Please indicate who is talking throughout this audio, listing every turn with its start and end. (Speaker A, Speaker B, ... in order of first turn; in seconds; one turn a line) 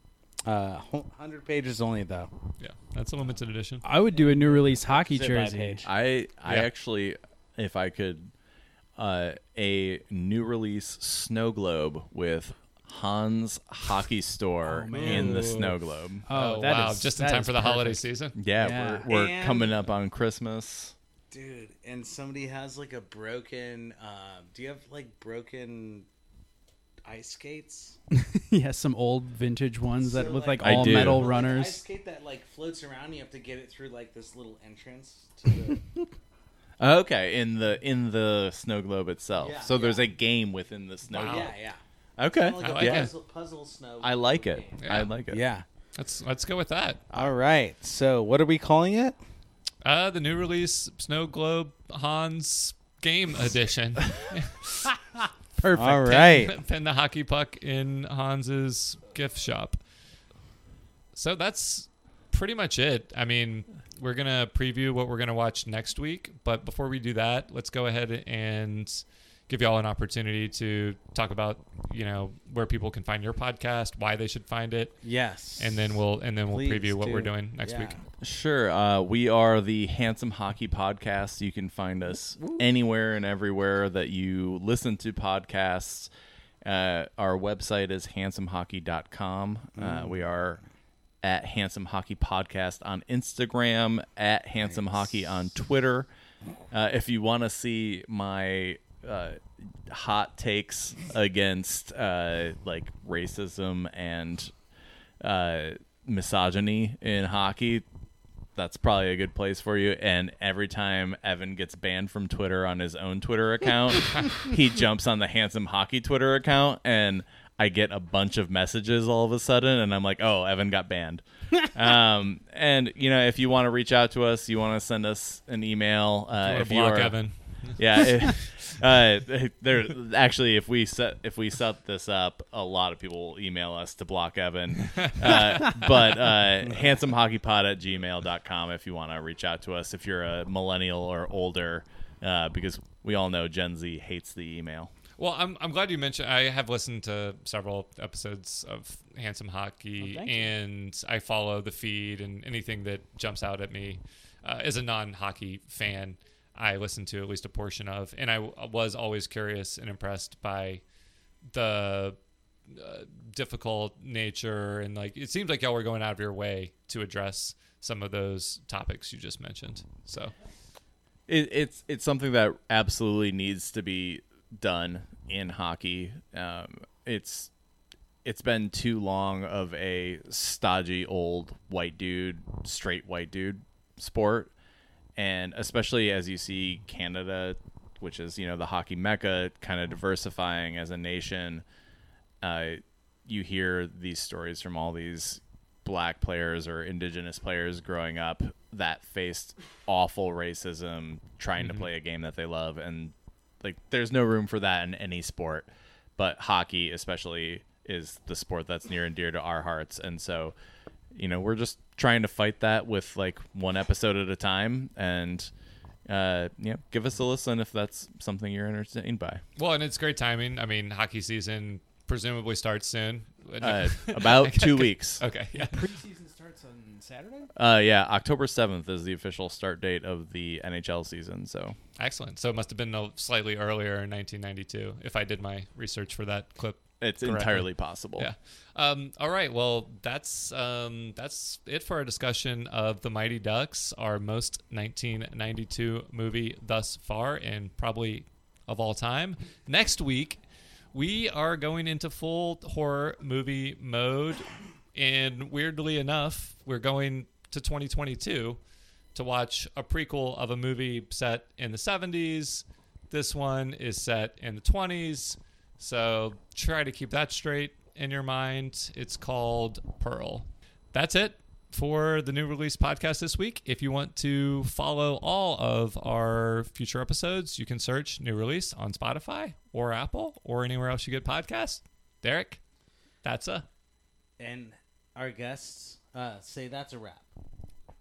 Speaker A: 0.4-2.3
Speaker B: 2.6-3.8
Speaker C: 3.8-5.8
Speaker A: 4.1-5.9
Speaker D: 5.8-8.3
Speaker D: 9.0-16.2
Speaker C: 14.6-15.5
Speaker B: 14.9-15.8
Speaker C: 16.3-19.1
Speaker B: 16.3-18.3
Speaker D: 18.4-20.9
Speaker A: 19.1-19.8
Speaker A: 21.3-26.1
Speaker A: 27.0-28.0
Speaker C: 28.1-31.8
Speaker A: 30.0-35.8
Speaker D: 30.6-31.4
Speaker D: 36.8-41.5
Speaker A: 39.3-40.1
Speaker A: 41.1-45.6
Speaker B: 41.1-41.5
Speaker D: 42.2-43.1
Speaker B: 42.6-43.1
Speaker D: 44.0-45.4
Speaker B: 44.8-45.1
Speaker B: 46.0-47.0
Speaker A: 47.1-49.2
Speaker B: 49.8-55.2
Speaker C: 55.6-56.0
Speaker A: 55.7-56.6
Speaker B: 55.9-59.8
Speaker B: 61.1-75.0
Speaker A: 75.0-75.9
Speaker B: 75.6-78.0
Speaker A: 76.5-78.0
Speaker D: 78.2-86.1
Speaker A: 82.3-82.7
Speaker D: 86.6-90.6
Speaker A: 89.8-90.2
Speaker D: 91.2-96.1
Speaker D: 96.7-104.5
Speaker D: 105.2-107.8
Speaker D: 108.5-127.2
Speaker B: 126.4-128.7
Speaker D: 127.8-144.9
Speaker B: 134.9-135.8
Speaker B: 145.2-160.8
Speaker C: 150.0-150.5
Speaker B: 161.5-162.2
Speaker B: 162.7-170.3
Speaker D: 171.3-177.5
Speaker D: 178.2-184.5
Speaker D: 185.2-191.6
Speaker D: 192.4-210.5
Speaker B: 201.6-201.8
Speaker D: 211.1-215.5
Speaker D: 216.1-219.4
Speaker B: 219.6-225.9
Speaker D: 223.6-225.2
Speaker C: 225.5-227.5
Speaker D: 227.5-231.8
Speaker B: 232.0-250.4
Speaker D: 237.0-238.3
Speaker B: 250.9-258.6
Speaker B: 259.1-282.6
Speaker B: 283.2-283.6
Speaker A: 284.4-287.3